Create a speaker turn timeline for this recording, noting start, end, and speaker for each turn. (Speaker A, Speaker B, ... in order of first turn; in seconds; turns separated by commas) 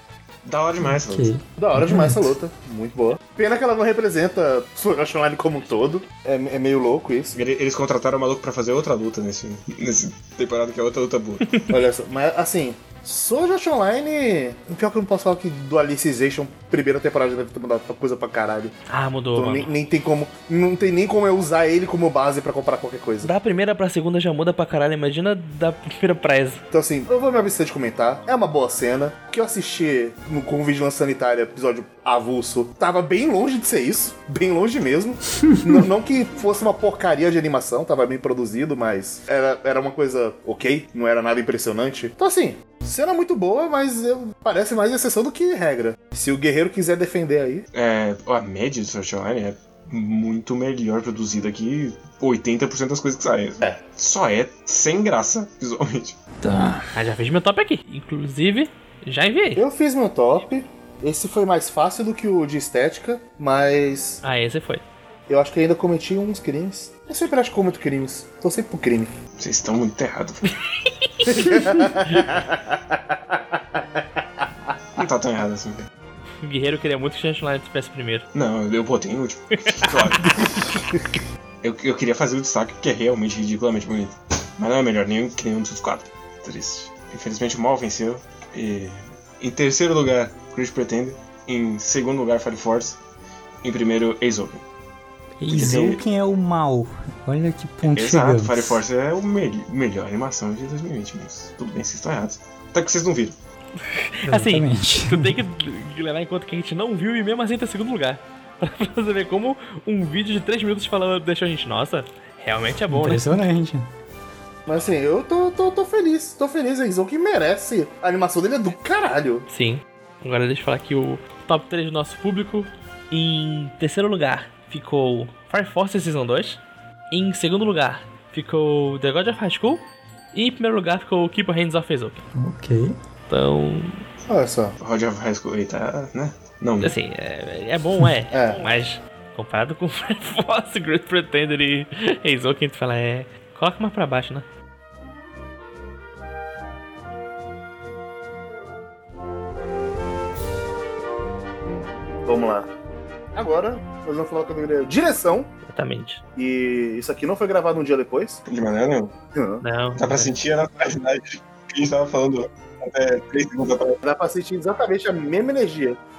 Speaker A: 0.5-1.3, Speaker B: 0.8-2.3, Speaker C: 1.6-7.4, Speaker A: 7.3-11.5, Speaker C: 11.7-18.8, Speaker D: 18.9-19.7, Speaker C: 19.4-23.3, Speaker D: 23.2-26.6, Speaker C: 26.7-47.6, Speaker B: 35.4-35.8, Speaker A: 47.7-56.2, Speaker B: 56.4-56.9, Speaker D: 56.9-59.6, Speaker C: 59.6-64.2, Speaker D: 64.2-64.8, Speaker C: 65.3-69.1, Speaker A: 69.4-70.5, Speaker D: 71.1-71.5, Speaker C: 71.2-74.0, Speaker A: 75.0-75.9, Speaker D: 76.4-78.3, Speaker A: 78.3-80.7, Speaker A: 81.6-93.0, Speaker A: 93.6-94.6, Speaker B: 95.4-98.8, Speaker A: 95.5-96.0, Speaker A: 97.9-103.4, Speaker D: 103.8-113.5, Speaker B: 104.2-105.4, Speaker B: 112.9-113.9, Speaker C: 114.7-119.5, Speaker D: 119.5-132.2, Speaker B: 132.3-133.0, Speaker D: 133.3-134.1, Speaker C: 134.3-134.8, Speaker A: 134.8-136.9, Speaker D: 136.8-144.4, Speaker C: 138.3-138.6, Speaker C: 152.2-152.7, Speaker C: 153.3-155.5, Speaker D: 155.7-156.2, Speaker C: 156.4-158.4, Speaker A: 158.5-159.1, Speaker C: 159.3-159.6, Speaker D: 159.6-160.3, Speaker A: 160.0-164.0, Speaker C: 164.0-166.0